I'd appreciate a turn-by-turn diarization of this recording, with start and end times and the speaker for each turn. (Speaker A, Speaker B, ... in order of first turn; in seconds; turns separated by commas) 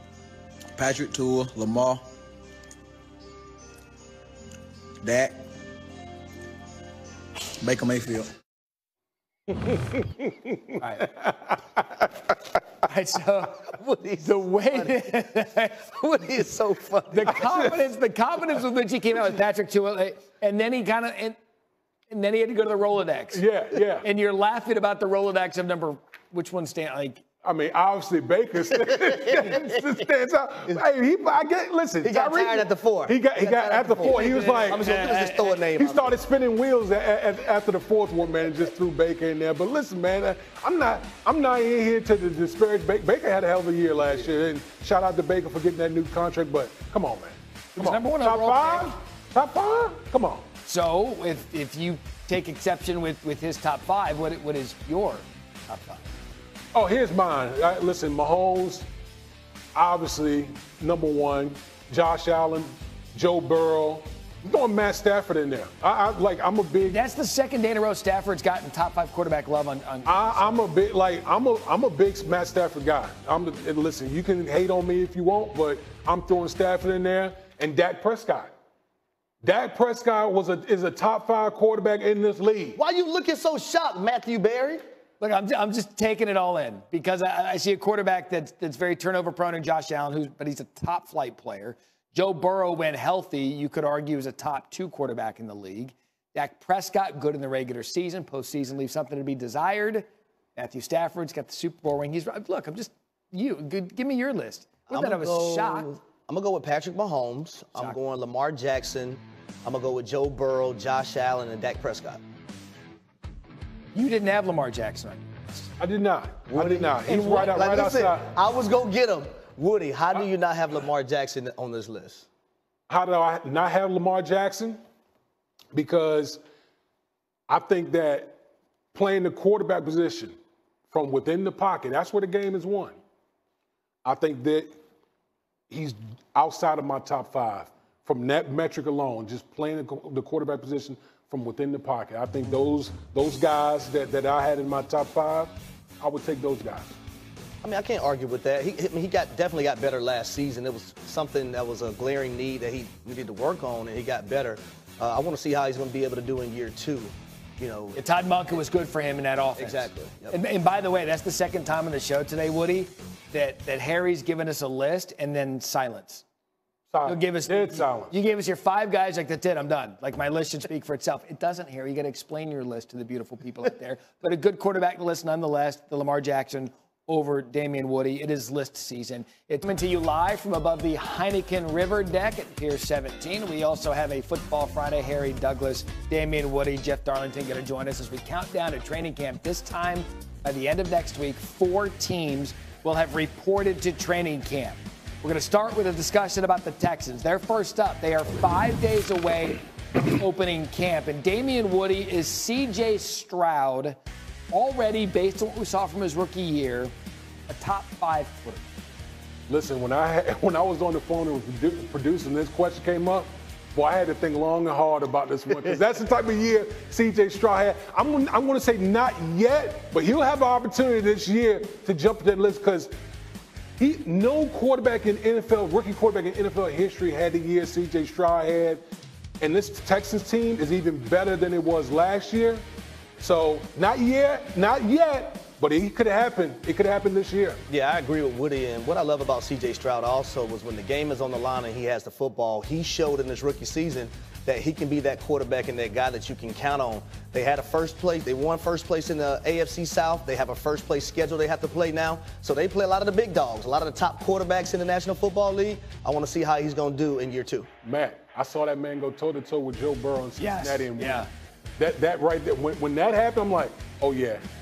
Speaker A: 0.8-2.0, Speaker A: 5.0-5.4, Speaker A: 7.6-8.3, Speaker B: 9.5-12.0, Speaker C: 12.8-13.6, Speaker D: 13.6-15.2, Speaker C: 14.2-15.9, Speaker D: 15.8-17.4, Speaker C: 17.1-21.4, Speaker B: 17.3-17.7, Speaker C: 22.1-23.4, Speaker B: 23.3-24.1, Speaker C: 24.0-27.2, Speaker B: 27.4-50.5, Speaker D: 32.0-36.1, Speaker C: 34.2-35.6, Speaker C: 47.8-49.0, Speaker C: 50.6-56.0, Speaker B: 56.7-58.9, Speaker B: 59.7-67.0, Speaker C: 66.8-70.6, Speaker B: 70.0-78.5, Speaker B: 79.4-82.8, Speaker D: 82.7-84.8, Speaker C: 85.2-105.9, Speaker D: 104.9-112.2, Speaker C: 113.9-115.7, Speaker B: 115.8-118.3, Speaker D: 116.5-122.3, Speaker B: 122.9-124.8, Speaker B: 125.7-126.4, Speaker B: 127.5-128.4, Speaker B: 128.9-130.3, Speaker B: 130.9-133.0, Speaker B: 134.0-134.7, Speaker B: 135.7-146.9, Speaker D: 147.6-158.0, Speaker C: 157.9-166.2, Speaker D: 159.6-160.3, Speaker B: 166.9-168.1, Speaker C: 167.1-199.6, Speaker C: 200.1-204.0, Speaker C: 204.5-206.9, Speaker C: 207.5-208.7, Speaker B: 209.5-222.9, Speaker B: 223.8-228.8, Speaker B: 229.4-232.6, Speaker B: 233.2-237.6, Speaker D: 237.7-257.7, Speaker B: 257.8-264.4, Speaker C: 260.4-261.3